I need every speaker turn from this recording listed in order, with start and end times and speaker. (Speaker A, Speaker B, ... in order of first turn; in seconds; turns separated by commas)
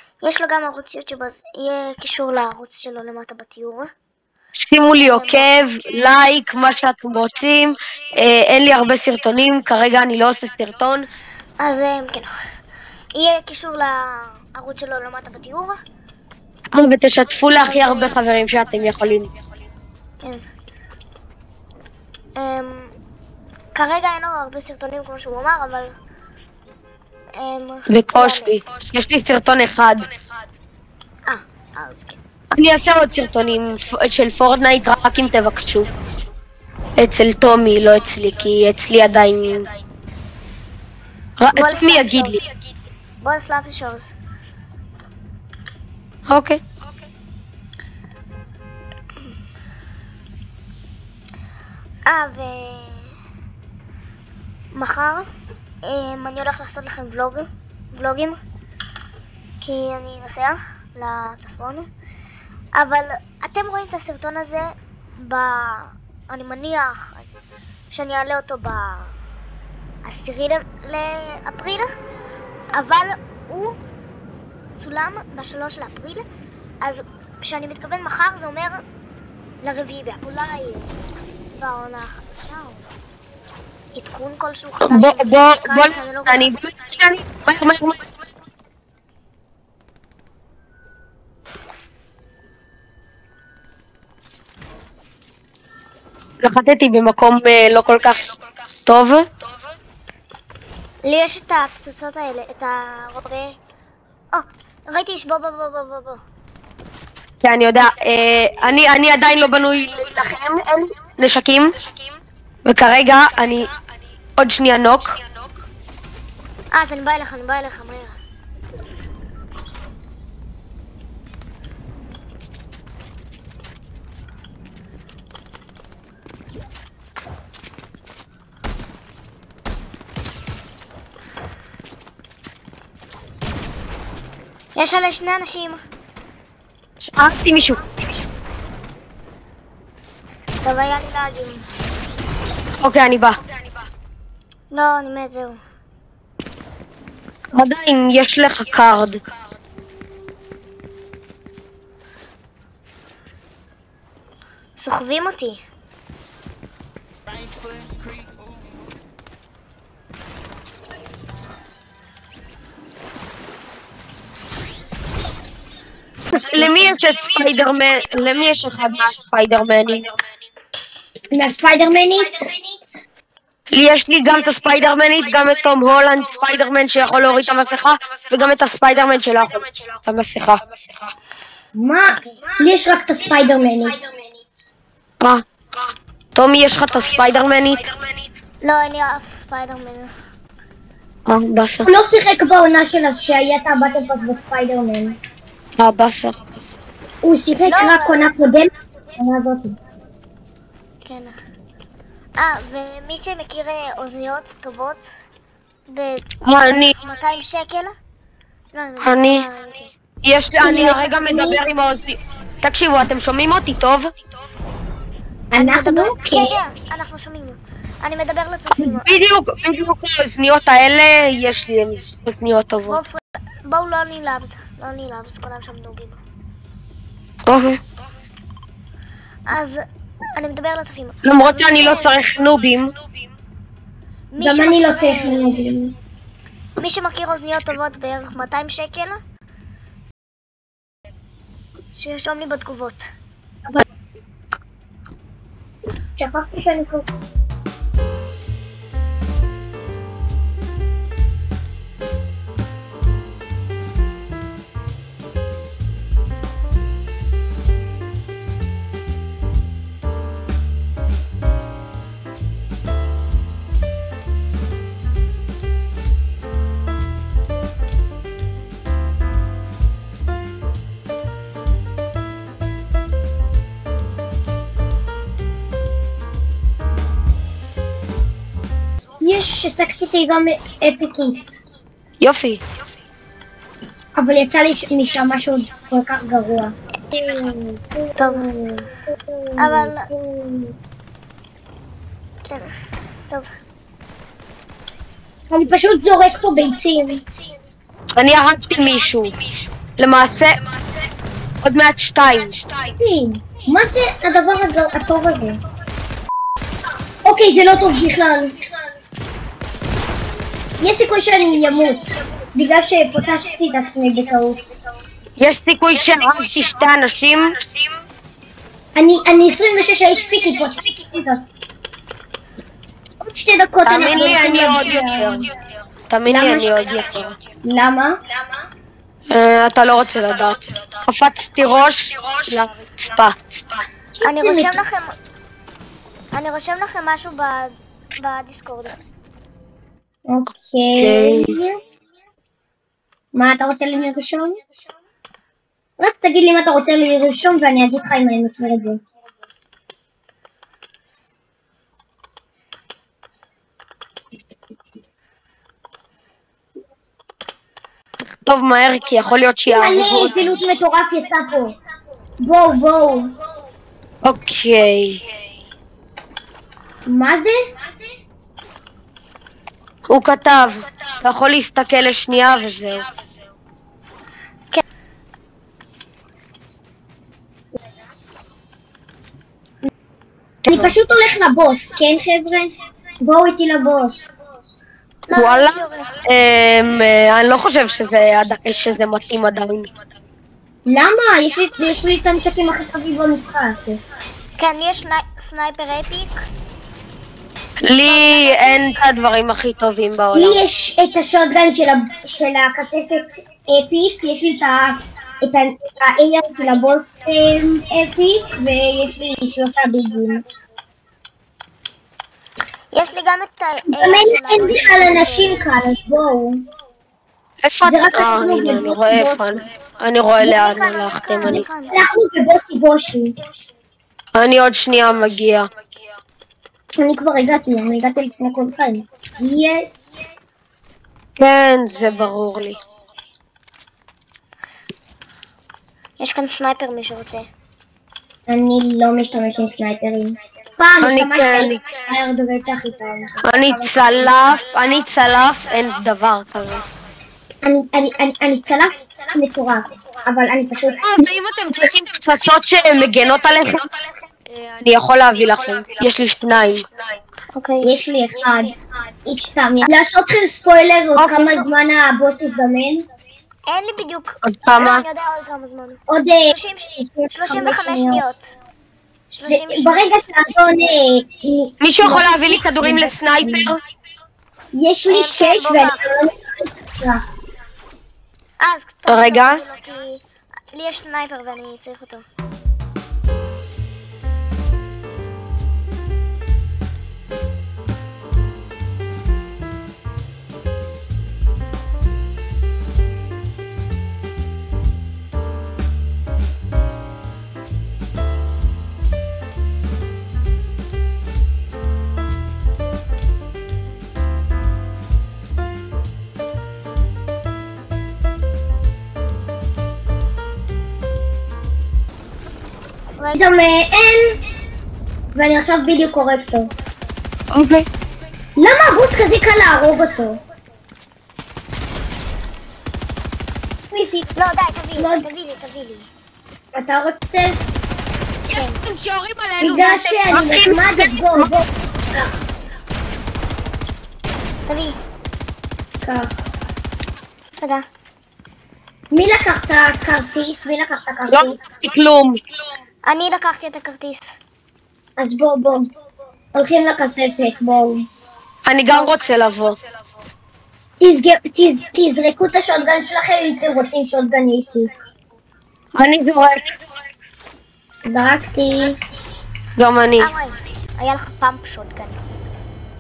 Speaker A: 0.2-3.9, Speaker B: 4.6-11.1, Speaker A: 5.0-5.5, Speaker A: 11.6-12.3, Speaker A: 13.2-15.8, Speaker B: 16.7-19.3, Speaker A: 17.5-18.2, Speaker A: 20.2-20.4, Speaker A: 22.4-22.9, Speaker A: 23.8-25.9, Speaker A: 27.4-28.6, Speaker B: 27.9-30.1, Speaker A: 31.3-32.2, Speaker B: 32.5-35.9, Speaker B: 37.0-39.7, Speaker B: 41.4-42.4, Speaker A: 41.5-42.4, Speaker A: 43.2-44.1, Speaker B: 46.3-46.6, Speaker A: 52.1-53.1, Speaker A: 54.7-55.3, Speaker A: 55.8-58.4, Speaker A: 59.6-61.9, Speaker A: 62.8-67.3, Speaker A: 67.9-69.1, Speaker A: 70.0-71.9, Speaker A: 72.7-73.8, Speaker A: 74.8-76.2, Speaker A: 76.8-78.8, Speaker A: 79.6-80.9, Speaker A: 81.5-82.9, Speaker A: 83.9-86.5, Speaker B: 84.8-88.1, Speaker B: 96.4-99.3, Speaker A: 101.0-103.6, Speaker A: 104.3-106.2, Speaker B: 107.4-111.7, Speaker B: 112.7-113.7, Speaker B: 114.4-115.2, Speaker A: 116.7-118.2, Speaker A: 134.8-135.8, Speaker B: 137.0-137.8, Speaker A: 140.6-141.7, Speaker B: 142.8-143.4, Speaker A: 144.7-145.6, Speaker B: 147.6-149.2, Speaker A: 154.8-155.6, Speaker B: 166.4-170.1, Speaker C: 166.5-166.7, Speaker C: 171.3-172.8, Speaker B: 173.7-181.1, Speaker C: 181.8-184.1, Speaker B: 185.2-188.2, Speaker A: 188.6-190.1, Speaker B: 191.3-191.9, Speaker C: 191.9-195.2, Speaker B: 195.8-196.4, Speaker C: 197.2-199.8, Speaker A: 197.7-198.3, Speaker A: 201.0-201.4, Speaker A: 202.4-205.1, Speaker A: 205.9-206.3, Speaker B: 206.4-207.0, Speaker A: 207.0-207.9, Speaker A: 208.7-209.9, Speaker B: 209.0-209.4, Speaker B: 210.2-214.1, Speaker C: 210.6-211.6, Speaker C: 215.5-216.6, Speaker A: 215.6-219.1, Speaker B: 218.8-223.0, Speaker A: 222.9-226.2, Speaker B: 227.5-227.8, Speaker A: 229.5-232.2, Speaker B: 231.2-232.9, Speaker A: 234.3-235.7, Speaker C: 234.4-235.9, Speaker A: 236.8-239.2, Speaker A: 241.9-243.1, Speaker C: 246.2-247.1, Speaker C: 279.2-281.4, Speaker B: 282.2-282.6, Speaker C: 284.2-290.8, Speaker A: 288.2-288.5, Speaker A: 289.6-290.1, Speaker A: 292.5-292.7, Speaker C: 295.5-297.2, Speaker B: 298.1-299.4, Speaker B: 300.0-300.6, Speaker B: 301.6-302.9, Speaker C: 303.0-305.6, Speaker C: 307.2-308.6, Speaker C: 310.8-314.6, Speaker B: 315.4-317.6, Speaker C: 319.0-321.4, Speaker C: 323.2-325.5, Speaker B: 323.9-325.5, Speaker B: 326.1-327.4, Speaker C: 326.2-326.8, Speaker C: 327.6-328.2, Speaker B: 329.3-333.9, Speaker C: 334.2-334.8, Speaker A: 334.2-335.1, Speaker A: 336.3-339.0, Speaker C: 340.3-341.8, Speaker B: 341.0-341.6, Speaker C: 343.4-344.6, Speaker C: 346.0-349.0, Speaker B: 358.4-360.4, Speaker C: 359.7-361.8, Speaker C: 362.4-363.4, Speaker B: 364.2-365.2, Speaker C: 367.1-367.6, Speaker B: 370.1-373.1, Speaker C: 380.6-384.2, Speaker B: 380.7-380.9, Speaker A: 385.3-386.2, Speaker B: 385.3-389.9, Speaker C: 390.9-394.0, Speaker A: 394.6-396.4, Speaker B: 397.8-400.6, Speaker A: 398.0-398.9, Speaker C: 400.3-410.4, Speaker A: 412.9-415.7, Speaker C: 413.9-416.6, Speaker B: 417.6-421.7, Speaker C: 417.8-419.6, Speaker A: 420.4-422.0, Speaker C: 421.4-423.4, Speaker B: 424.4-425.7, Speaker C: 427.0-429.9, Speaker B: 431.4-432.8, Speaker A: 436.2-437.5, Speaker C: 438.5-444.0, Speaker B: 441.0-441.9, Speaker B: 443.4-446.9, Speaker C: 447.6-451.0, Speaker B: 451.0-456.9, Speaker A: 457.5-457.9, Speaker C: 457.8-458.7, Speaker C: 459.3-463.1, Speaker B: 461.2-461.6, Speaker A: 463.7-466.0, Speaker B: 464.5-465.1, Speaker C: 466.1-468.2, Speaker A: 466.5-468.5, Speaker A: 469.3-470.0, Speaker C: 469.4-473.7, Speaker B: 471.8-473.8, Speaker C: 474.7-477.2, Speaker A: 475.1-476.0, Speaker A: 478.6-482.2, Speaker B: 479.1-479.6, Speaker A: 513.2-513.4, Speaker C: 513.4-514.4, Speaker C: 515.3-516.7, Speaker B: 517.5-517.9, Speaker C: 518.6-520.4, Speaker C: 523.9-524.3, Speaker A: 524.4-526.1, Speaker C: 525.0-525.3, Speaker C: 526.8-527.6, Speaker A: 528.5-528.8, Speaker B: 528.5-531.5, Speaker C: 529.6-532.3, Speaker A: 534.7-535.0, Speaker C: 536.0-536.3, Speaker A: 537.6-537.9, Speaker C: 539.1-541.7, Speaker B: 541.3-542.4, Speaker A: 543.0-544.4, Speaker C: 545.2-545.9, Speaker C: 546.5-548.0, Speaker B: 548.6-549.8, Speaker A: 548.9-549.2, Speaker C: 551.0-554.9, Speaker B: 556.0-556.7, Speaker C: 558.1-559.0, Speaker B: 559.8-560.3, Speaker A: 560.2-562.2